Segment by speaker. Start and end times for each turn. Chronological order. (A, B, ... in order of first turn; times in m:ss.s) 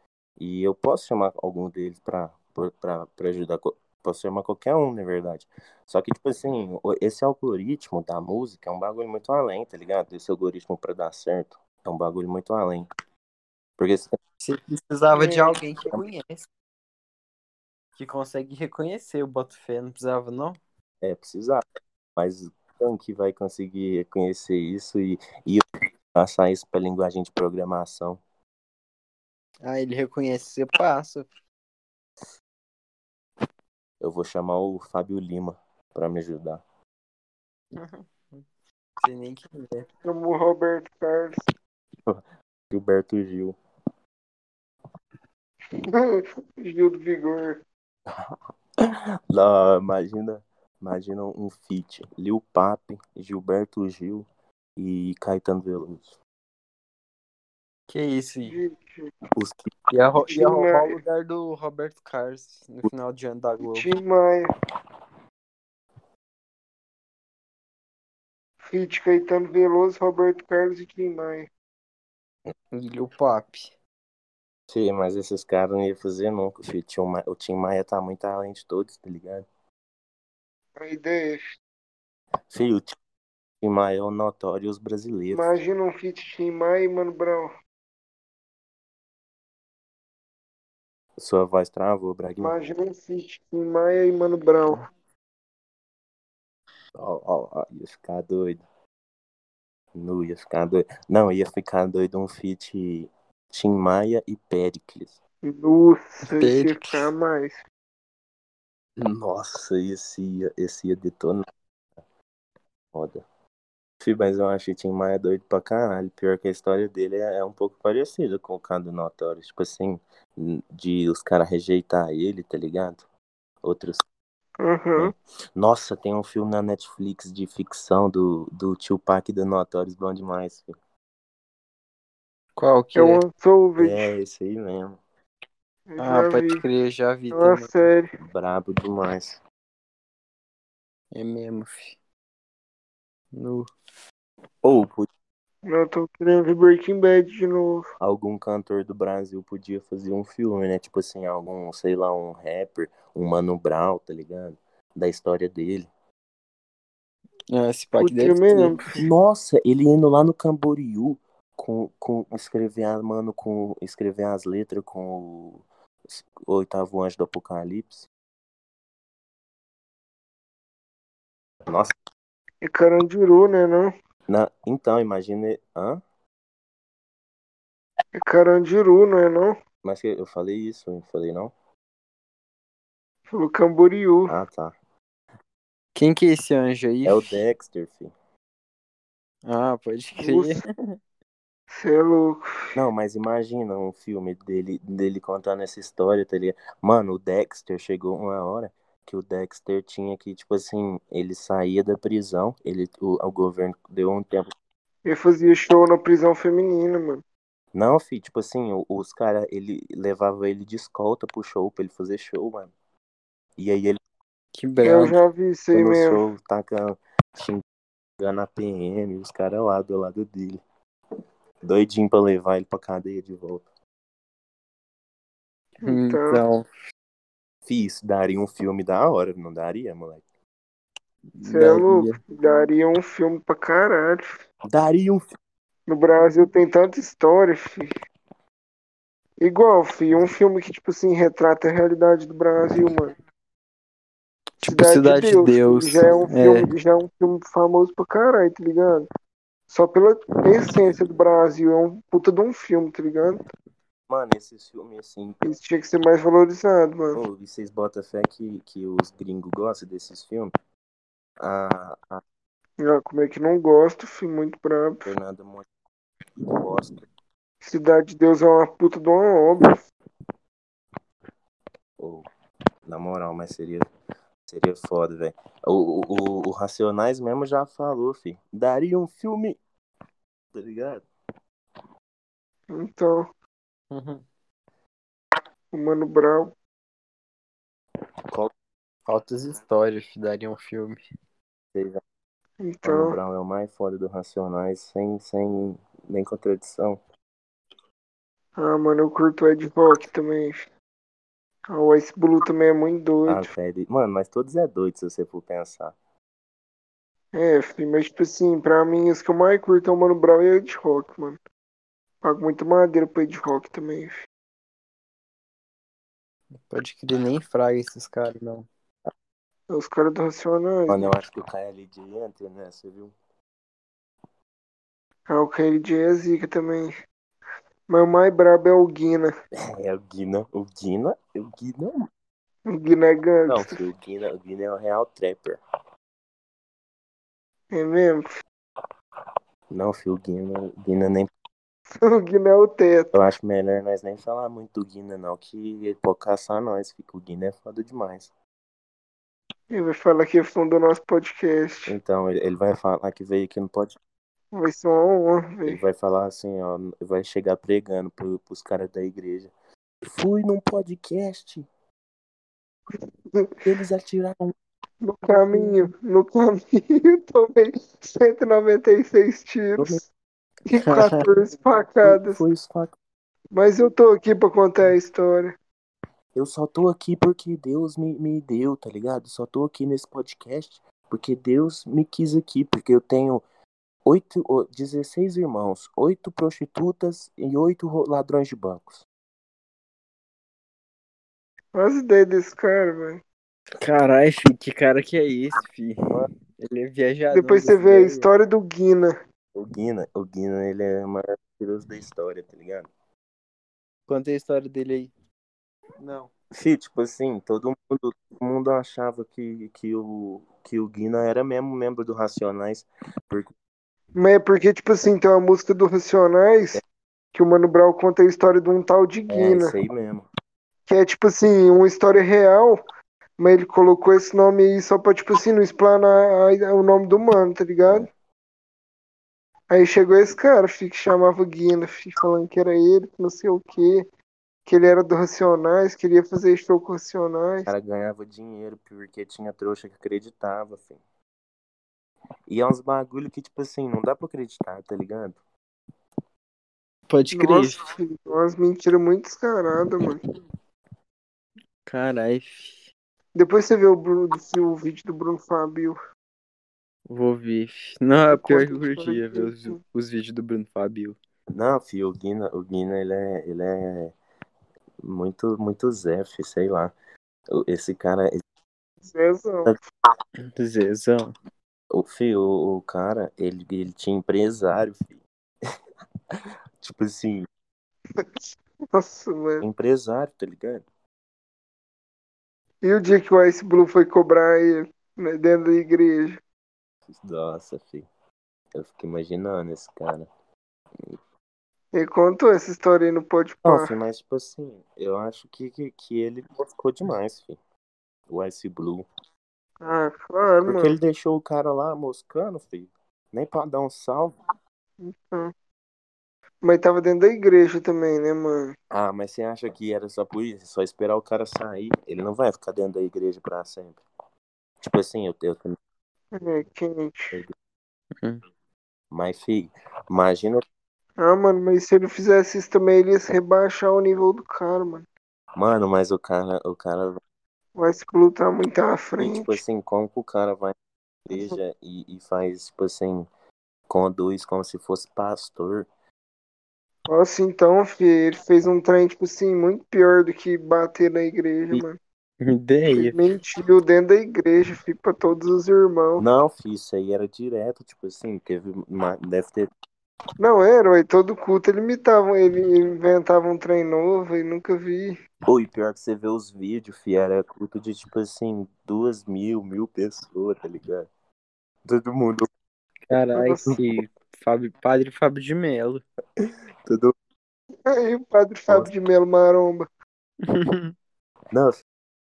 0:00.4-0:12.9 A
0:13.8-0:14.2 A
0:14.4-0:16.5 B
0:15.1-0:15.6 C
0:18.0-0:20.6 B
0:21.0-0:21.6 A
0:22.2-0:28.2 A
0:29.6-0:31.3 B
0:34.0-0:36.6 A
0:37.8-0:38.4 B
0:39.0-0:39.9 B
0:40.0-0:41.5 C
0:42.7-0:43.6 A
0:45.7-0:47.6 C
0:48.1-0:54.3 A
0:54.8-0:56.2 A
0:57.9-0:58.6 B
0:58.5-0:59.1 C
0:59.4-0:59.7 A
0:59.9-1:03.9 B
1:00.2-1:01.0 C
1:03.6-1:04.5 C
1:08.6-1:11.5 C
1:12.7-1:13.7 B
1:14.7-1:19.5 A
1:20.8-1:21.6 C
1:22.5-1:23.0 A
1:23.6-1:25.6 A
1:25.3-1:27.5 C
1:31.2-1:32.6 A
1:32.4-1:34.8 C
1:37.0-1:38.6 A
1:40.0-1:45.2 A
1:45.4-1:47.6 C
1:46.3-1:47.1 B
1:49.0-1:51.5 A
1:52.9-1:53.2 A
1:54.0-2:03.0 A
2:03.6-2:04.0 A
2:04.6-2:05.1 C
2:05.0-2:10.7 A
2:12.6-2:13.2 B
2:13.0-2:14.1 C
2:13.8-2:15.0 A
2:15.9-2:16.6 C
2:16.0-2:17.8 B
2:17.3-2:18.1 C
2:18.2-2:19.4 A
2:21.1-2:22.0 B
2:23.4-2:23.7 B
2:24.6-2:25.1 A
2:25.6-2:27.9 C
2:28.0-2:35.9 A
2:37.5-2:38.8 B
2:38.0-2:39.1 C
2:38.9-2:48.1 A
2:51.7-2:52.0 A
2:52.6-2:53.9 C
2:54.3-2:56.0 A
2:58.2-2:59.6 C
2:59.8-3:01.5 A
3:03.3-3:04.3 C
3:04.3-3:04.8 A
3:06.0-3:07.4 B
3:07.0-3:08.1 A
3:09.5-3:11.0 B
3:10.2-3:10.6 C
3:11.7-3:12.7 C
3:12.8-3:24.5 A
3:25.0-3:27.2 C
3:27.7-3:32.7 A
3:33.6-3:34.0 A
3:34.5-3:35.2 B
3:34.8-3:36.2 C
3:35.7-3:37.6 A
3:38.2-3:40.6 A
3:41.6-3:43.7 A
3:45.8-3:46.4 C
3:45.8-3:46.6 B
3:47.7-3:50.2 A
3:51.4-3:52.2 B
3:51.4-3:54.4 C
3:54.7-3:55.3 A
3:55.9-3:58.0 C
3:59.4-4:03.1 C
4:04.6-4:06.7 B
4:04.6-4:09.1 C
4:09.7-4:13.5 C
4:14.1-4:15.5 A
4:15.4-4:17.2 C
4:17.1-4:20.5 A
4:21.4-4:22.2 A
4:22.8-4:25.1 C
4:25.0-4:25.7 A
4:26.5-4:27.0 A
4:27.6-4:29.8 C
4:32.0-4:32.3 A
4:32.9-4:33.9 A
4:34.5-4:39.6 A
4:40.5-4:41.0 A
4:42.7-4:43.3 C
4:43.9-4:44.2 B
4:45.7-4:46.5 C
4:49.1-4:51.0 B
4:51.7-4:52.0 A
4:52.6-4:53.2 C
4:52.8-4:57.0 A
4:58.6-5:00.7 C
5:01.7-5:03.5 C
5:03.3-5:06.0 A
5:07.3-5:11.4 C
5:12.2-5:14.2 C
5:16.7-5:18.7 B
5:19.7-5:21.1 C
5:20.9-5:23.1 A
5:25.3-5:26.9 C
5:27.9-5:29.3 C
5:29.7-5:32.1 A
5:32.7-5:33.8 C
5:33.5-5:35.6 A
5:37.7-5:38.4 C
5:39.7-5:41.3 A
5:41.9-5:43.1 C
5:43.1-5:48.3 A
5:49.7-5:52.0 C
5:51.9-5:54.0 A
5:54.5-5:55.8 C
5:55.7-5:59.5 A
6:00.1-6:01.7 A
6:03.3-6:03.6 C
6:03.6-6:04.5 A
6:05.0-6:10.0 C
6:09.8-6:10.0 A
6:10.7-6:12.4 C
6:10.8-6:11.3 B
6:12.0-6:13.0 A
6:13.5-6:15.6 C
6:16.4-6:23.4 A
6:24.0-6:29.0 A
6:31.7-6:33.2 C
6:33.8-6:38.3 B
6:37.3-6:39.2 C
6:39.6-6:42.9 A
6:44.1-6:45.1 B
6:46.0-6:46.3 B
6:46.5-6:53.5 A
6:54.2-6:56.8 C
6:57.3-6:59.8 C
6:59.3-7:00.3 A
7:00.9-7:02.8 C
7:03.4-7:08.1 C
7:09.7-7:14.0 C
7:14.7-7:17.7 C
7:17.7-7:21.0 A
7:22.5-7:25.4 A
7:27.1-7:27.8 B
7:27.3-7:30.2 C
7:31.9-7:32.9 B
7:33.4-7:36.0 C
7:37.1-7:41.2 B
7:38.3-7:39.8 C
7:41.5-7:44.1 A
7:45.0-7:46.9 A
7:47.5-7:48.4 A
7:49.0-7:49.8 C
7:50.6-7:51.3 B
7:51.9-7:55.2 A
7:56.3-7:57.5 A
7:58.2-7:59.7 C
7:59.6-8:00.8 A
8:02.8-8:06.4 C
8:07.1-8:08.1 A
8:08.8-8:10.3 A
8:11.9-8:13.9 C
8:13.6-8:17.6 A
8:18.3-8:19.1 A
8:19.8-8:21.0 C
8:20.6-8:24.4 A
8:25.0-8:25.5 C
8:26.6-8:28.8 C
8:28.9-8:34.0 A
8:34.8-8:35.8 A
8:36.3-8:37.4 C
8:39.1-8:40.6 A
8:41.2-8:45.1 C
8:45.6-8:47.2 A
8:47.8-8:49.6 C
8:49.2-8:50.8 A
8:51.3-8:53.3 A
8:53.9-8:55.9 A
8:57.1-9:02.0 C
9:02.4-9:03.2 B
9:02.9-9:06.2 C
9:06.2-9:09.7 A
9:10.4-9:15.2 C
9:15.5-9:21.1 A
9:21.8-9:22.5 A
9:23.1-9:26.0 B
9:23.3-9:23.8 C
9:26.4-9:27.1 A
9:27.9-9:29.9 C
9:30.5-9:30.9 B
9:31.5-9:31.8 A